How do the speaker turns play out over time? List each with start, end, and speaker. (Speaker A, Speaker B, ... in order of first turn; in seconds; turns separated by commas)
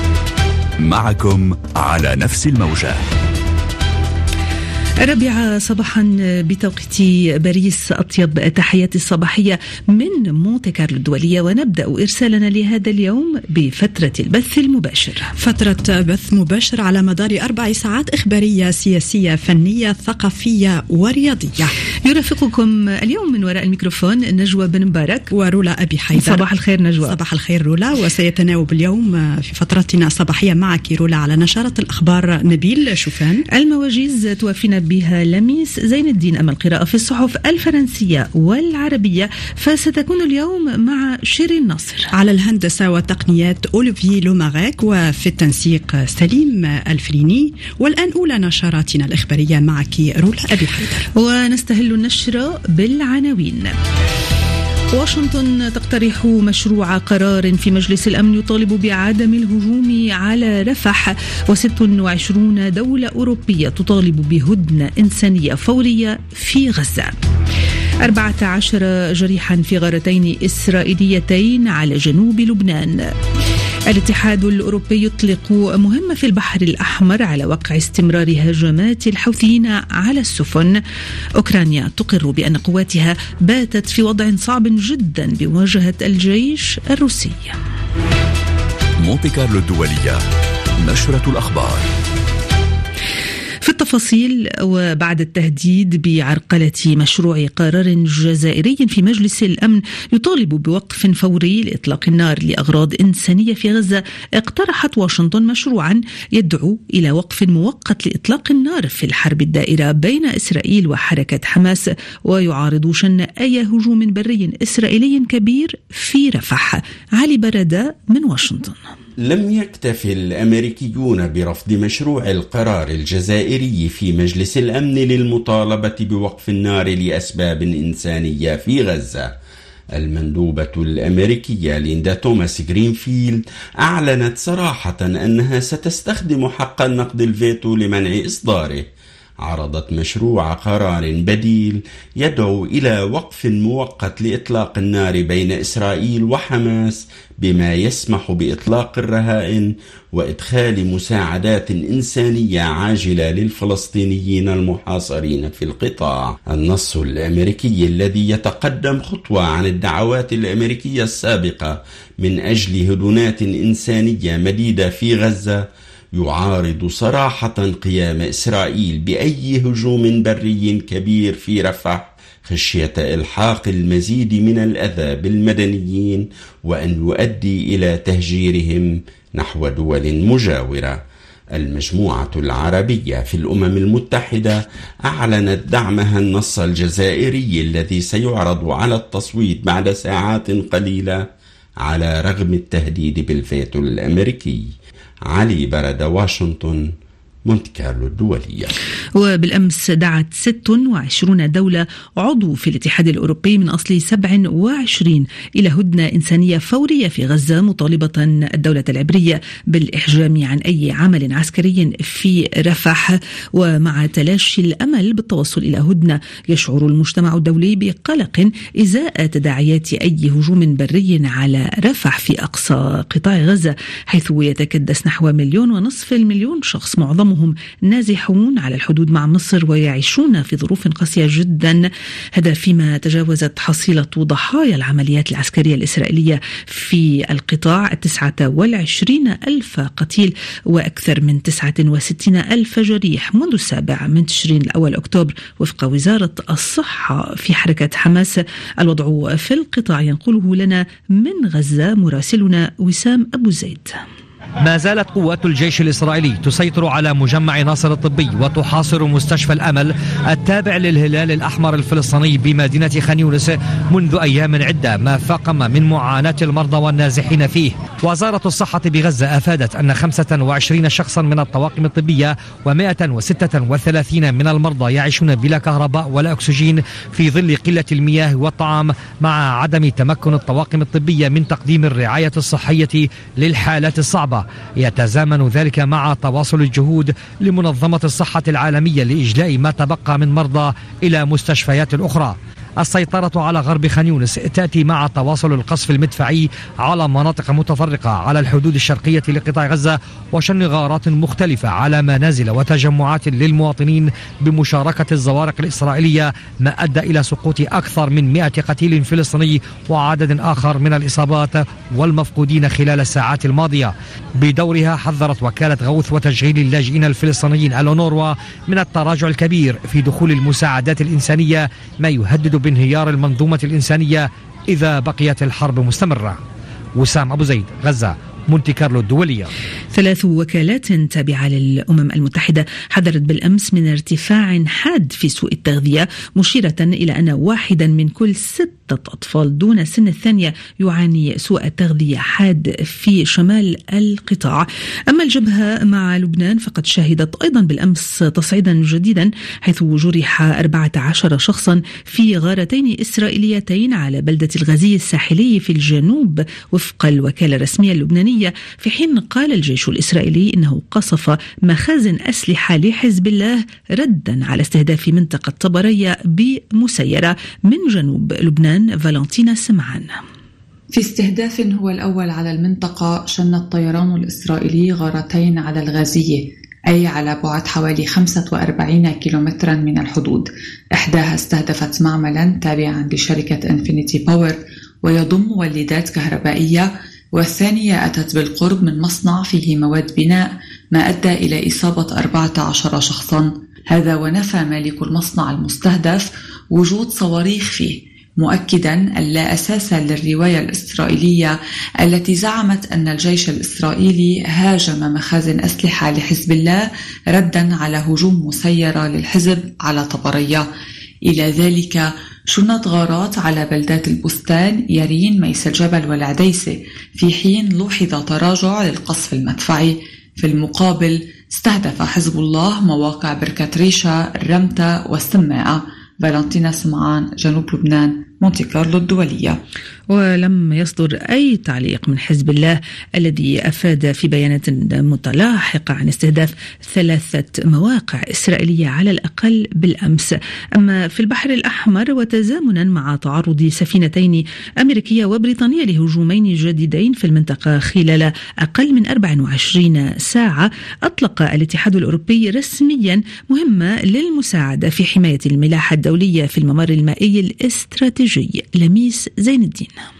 Speaker A: 0.9-2.9, Speaker B: 5.0-15.3, Speaker C: 15.4-21.7, Speaker B: 22.1-25.3, Speaker C: 25.3-26.5, Speaker B: 26.1-27.2, Speaker C: 27.0-33.4, Speaker B: 33.5-42.1, Speaker C: 42.1-51.0, Speaker B: 51.1-53.7, Speaker B: 54.9-67.1, Speaker B: 68.0-73.0, Speaker B: 73.9-80.8, Speaker B: 81.4-87.6, Speaker A: 89.0-90.2, Speaker A: 90.8-91.8, Speaker B: 93.6-118.8, Speaker D: 119.2-129.3, Speaker D: 129.9-138.9, Speaker D: 139.4-181.0, Speaker D: 181.5-191.2, Speaker D: 191.8-194.7, Speaker D: 195.2-196.9, Speaker D: 197.4-198.7, Speaker B: 199.2-254.0, Speaker E: 254.6-326.4, Speaker E: 326.9-329.5, Speaker B: 329.9-370.1, Speaker F: 370.9-410.7, Speaker F: 411.2-429.6, Speaker B: 430.1-459.9